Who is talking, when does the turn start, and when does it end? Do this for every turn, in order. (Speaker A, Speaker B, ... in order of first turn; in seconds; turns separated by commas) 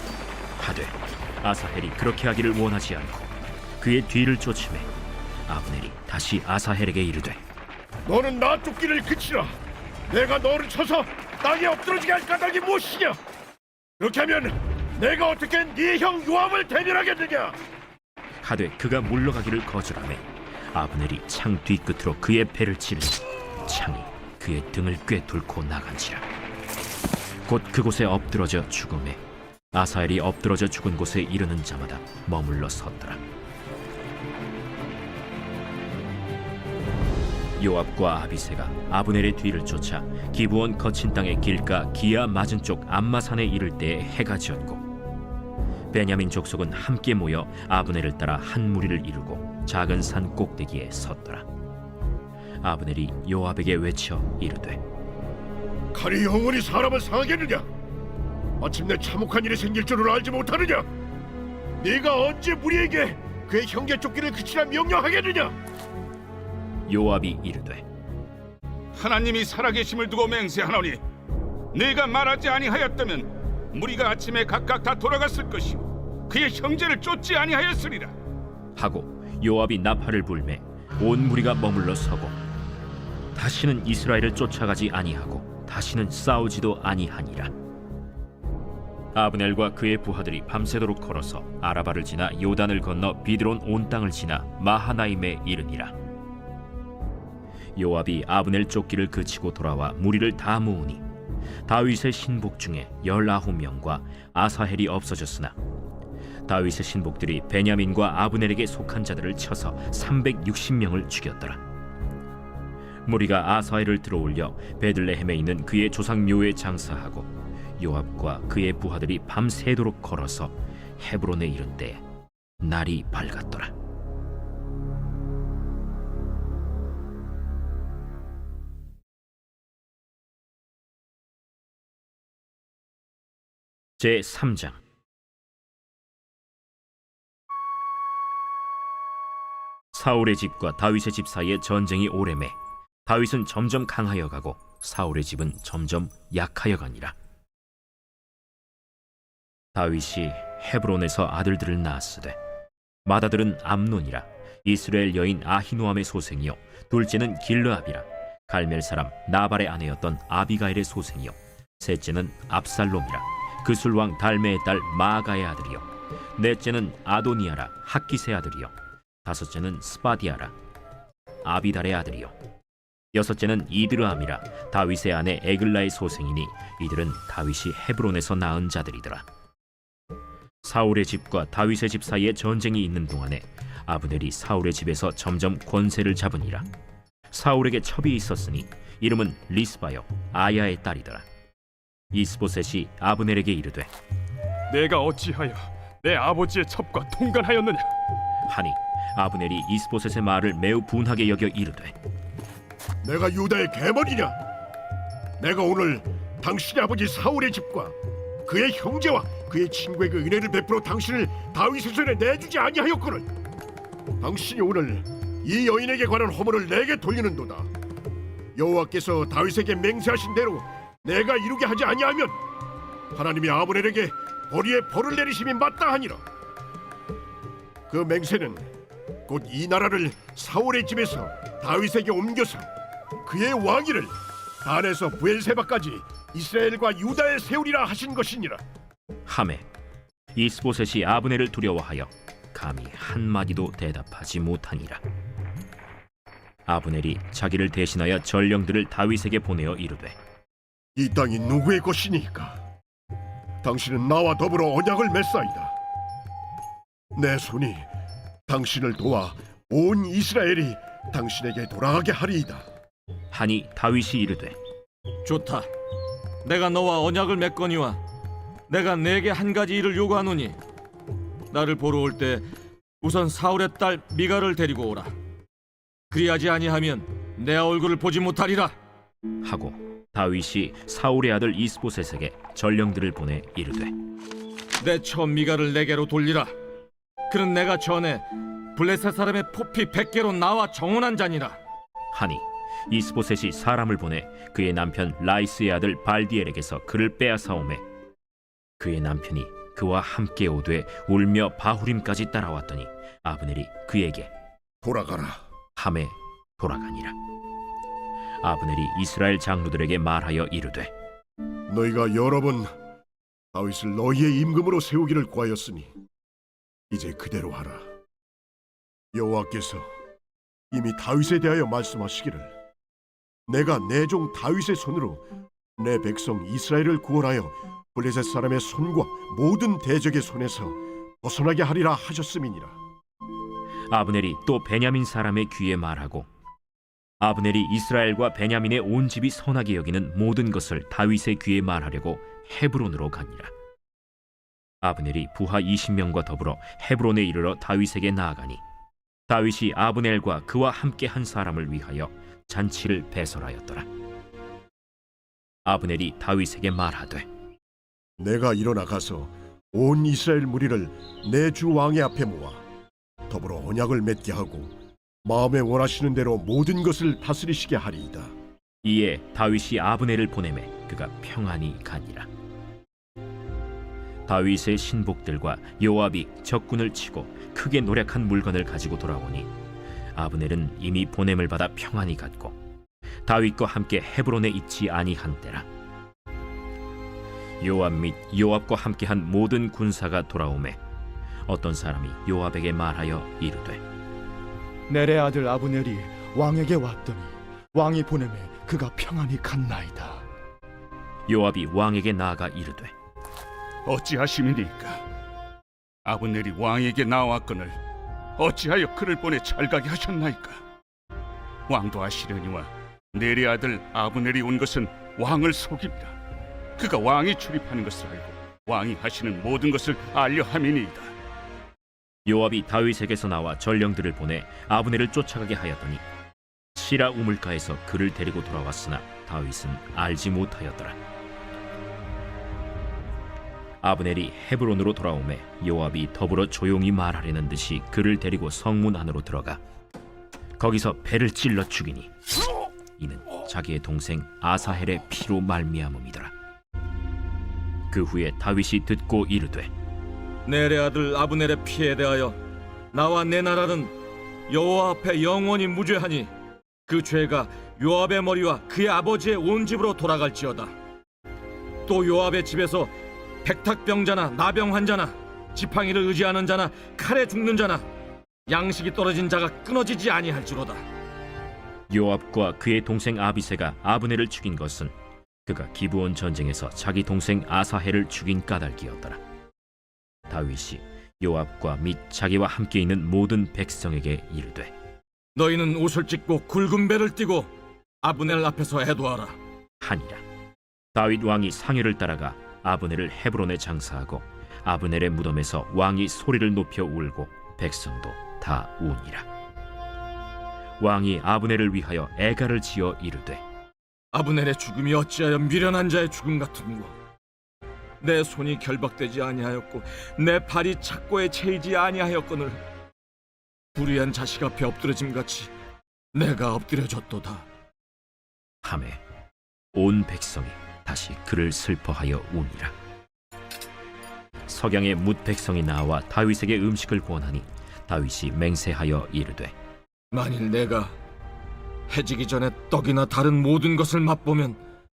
Speaker A: 0.6-4.9, Speaker A: 5.5-7.4, Speaker B: 8.1-9.6, Speaker B: 10.1-13.2, Speaker B: 14.0-17.6, Speaker A: 18.4-26.2, Speaker A: 27.5-29.2, Speaker A: 29.7-33.2, Speaker A: 37.6-44.8, Speaker A: 45.9-51.5, Speaker A: 52.6-54.8, Speaker B: 55.9-57.7, Speaker B: 58.6-60.9, Speaker B: 61.8-65.6, Speaker A: 66.9-67.8, Speaker C: 68.9-71.0, Speaker C: 71.7-78.1, Speaker A: 78.8-82.4, Speaker A: 83.3-87.5, Speaker A: 89.1-95.9, Speaker A: 97.8-101.0, Speaker A: 101.7-105.5, Speaker A: 106.5-111.6, Speaker A: 113.0-122.0, Speaker A: 122.6-123.7, Speaker A: 134.0-134.8, Speaker A: 139.9-147.2, Speaker A: 149.7-152.4, Speaker A: 153.1-168.7, Speaker A: 169.2-170.5, Speaker A: 171.4-172.3, Speaker A: 173.1-179.2, Speaker A: 180.6-186.7, Speaker A: 187.3-191.2, Speaker A: 192.1-193.9, Speaker D: 194.7-197.9, Speaker A: 198.5-201.9, Speaker B: 203.0-204.4, Speaker B: 205.4-207.9, Speaker B: 208.4-213.3, Speaker B: 214.2-217.7, Speaker B: 218.5-222.4, Speaker B: 223.1-226.2, Speaker B: 227.9-228.7, Speaker B: 229.3-232.7, Speaker B: 233.2-238.6, Speaker A: 239.2-239.6, Speaker A: 240.3-245.0, Speaker A: 246.7-250.2, Speaker B: 250.9-252.6, Speaker B: 253.6-255.7, Speaker B: 257.1-257.9, Speaker B: 258.5-262.6, Speaker A: 263.3-264.6, Speaker E: 265.2-265.7, Speaker E: 266.4-268.0, Speaker E: 268.7-270.6, Speaker E: 271.5-272.4, Speaker E: 273.0-275.1, Speaker E: 276.1-278.8, Speaker A: 279.4-283.9, Speaker E: 284.8-286.5, Speaker E: 287.3-291.6, Speaker A: 292.1-297.8, Speaker A: 298.8-304.3, Speaker B: 304.8-305.4, Speaker A: 305.8-307.1, Speaker A: 308.4-310.9, Speaker B: 311.7-312.7, Speaker B: 313.5-315.9, Speaker B: 316.9-317.9, Speaker B: 319.1-319.9, Speaker B: 320.7-322.5, Speaker B: 323.5-325.2, Speaker B: 325.8-332.8, Speaker A: 333.9-336.3, Speaker A: 337.2-343.5, Speaker A: 344.8-348.6, Speaker A: 349.3-353.9, Speaker A: 355.6-357.3, Speaker B: 358.2-362.6, Speaker B: 363.3-368.3, Speaker A: 368.8-372.3, Speaker A: 374.3-379.5, Speaker A: 380.1-382.6, Speaker A: 383.2-385.7, Speaker A: 387.6-390.8, Speaker A: 391.5-393.8, Speaker F: 394.9-400.2, Speaker A: 401.3-402.9, Speaker C: 403.9-405.0, Speaker C: 406.0-407.8, Speaker C: 408.4-410.6, Speaker C: 411.7-416.1, Speaker C: 416.8-421.1, Speaker A: 422.2-426.0, Speaker A: 426.7-430.9, Speaker A: 433.8-439.6, Speaker A: 440.6-442.1, Speaker A: 443.0-446.3, Speaker A: 447.9-449.7, Speaker E: 450.5-452.4, Speaker E: 452.9-453.9, Speaker E: 454.5-456.3, Speaker E: 456.9-460.7, Speaker E: 461.9-462.9, Speaker E: 463.4-467.9, Speaker E: 468.5-470.8, Speaker A: 471.9-474.9, Speaker A: 475.4-479.2, Speaker A: 480.3-484.7, Speaker E: 485.4-487.5, Speaker E: 488.0-489.4, Speaker A: 489.8-490.2, Speaker A: 490.9-499.3, Speaker A: 500.8-503.4, Speaker E: 504.1-506.9, Speaker E: 508.0-512.6, Speaker E: 513.8-515.5, Speaker E: 516.1-517.5, Speaker A: 518.6-519.0, Speaker A: 519.7-522.7, Speaker A: 524.5-529.5, Speaker E: 530.1-530.9, Speaker E: 531.9-534.6